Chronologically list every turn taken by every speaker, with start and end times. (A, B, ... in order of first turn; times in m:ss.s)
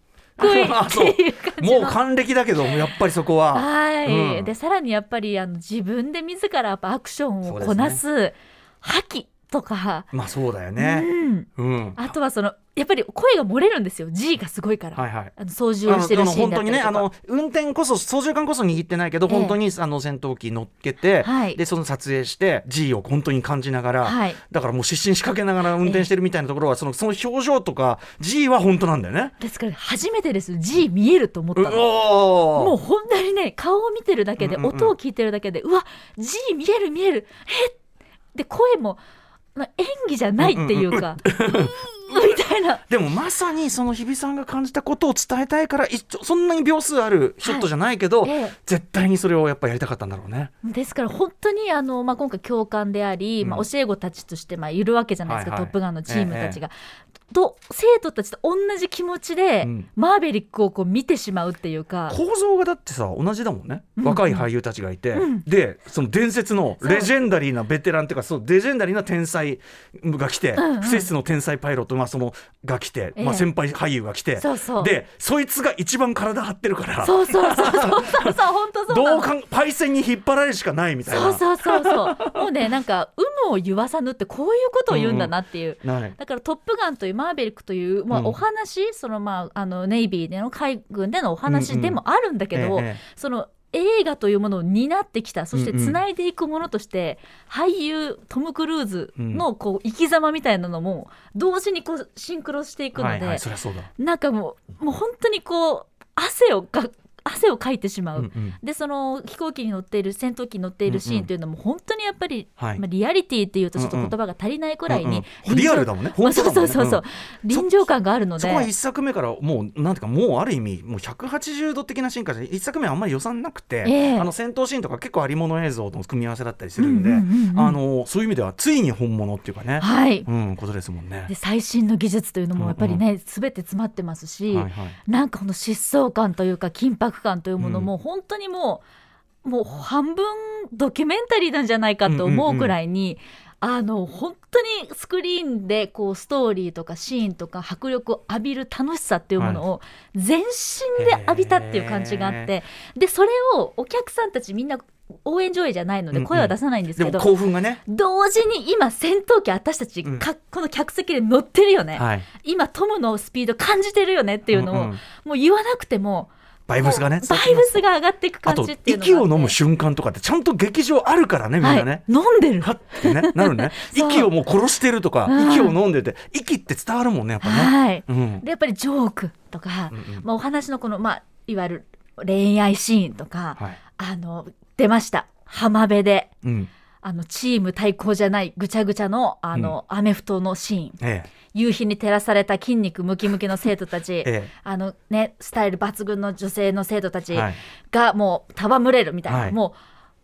0:00.4-0:02.0 A
0:00.4-0:04.5 B
0:03.5-0:10.1 A
0:07.4-0:08.0 B
0:10.1-0:12.1 B
0:10.8-0:17.1 A
0:15.0-0:15.3 B
0:15.9-0:29.4 B
0:19.3-0:19.6 A
0:21.2-0:21.6 A
0:24.0-0:24.4 A
0:25.8-0:26.1 A
0:29.4-0:32.0 A
0:31.6-0:32.8 B
0:32.5-0:37.8 A
0:34.4-0:35.0 B
0:38.4-0:39.0 A
0:39.6-0:42.8 A
0:40.4-0:50.5 B
0:48.2-0:48.6 A
0:50.6-0:56.7 A
0:53.4-0:53.7 B
0:55.3-0:56.6 B
0:57.3-1:02.2 A
0:59.6-0:59.9 B
1:02.1-1:18.4 B
1:04.0-1:04.5 A
1:05.1-1:05.4 A
1:06.8-1:07.1 A
1:10.6-1:11.1 A
1:13.2-1:13.5 A
1:14.4-1:15.0 A
1:17.0-1:19.3 A
1:18.9-1:22.5 B
1:21.1-1:43.4 A
1:24.9-1:26.2 B
1:28.1-1:28.4 B
1:31.5-1:32.0 B
1:32.5-1:33.0 B
1:35.5-1:36.0 B
1:39.2-1:39.4 B
1:43.0-1:43.9 B
1:44.0-1:58.7 A
1:48.2-1:48.6 B
1:50.9-1:51.3 B
1:52.6-1:52.8 B
1:53.8-1:54.2 B
1:54.9-2:11.3 B
2:03.8-2:04.3 A
2:06.8-2:07.8 A
2:09.8-2:10.3 A
2:11.3-2:18.8 A
2:12.6-2:13.0 B
2:14.5-2:15.0 B
2:17.6-2:17.9 B
2:19.4-2:37.3 A
2:22.0-2:22.8 B
2:31.0-2:32.5 B
2:36.1-2:37.8 B
2:37.9-2:49.6 A
2:42.0-2:42.3 B
2:44.5-2:45.0 B
2:46.7-2:47.8 B
2:48.4-2:52.1 B
2:51.6-2:54.3 A
2:52.6-2:58.4 B
2:55.3-2:55.8 A
2:57.4-3:06.3 A
2:59.9-3:00.2 B
3:06.4-3:06.7 B
3:07.0-3:11.0 A
3:11.0-3:11.3 B
3:11.5-3:19.8 A
3:14.2-3:14.5 B
3:17.3-3:17.6 B
3:19.3-3:19.6 B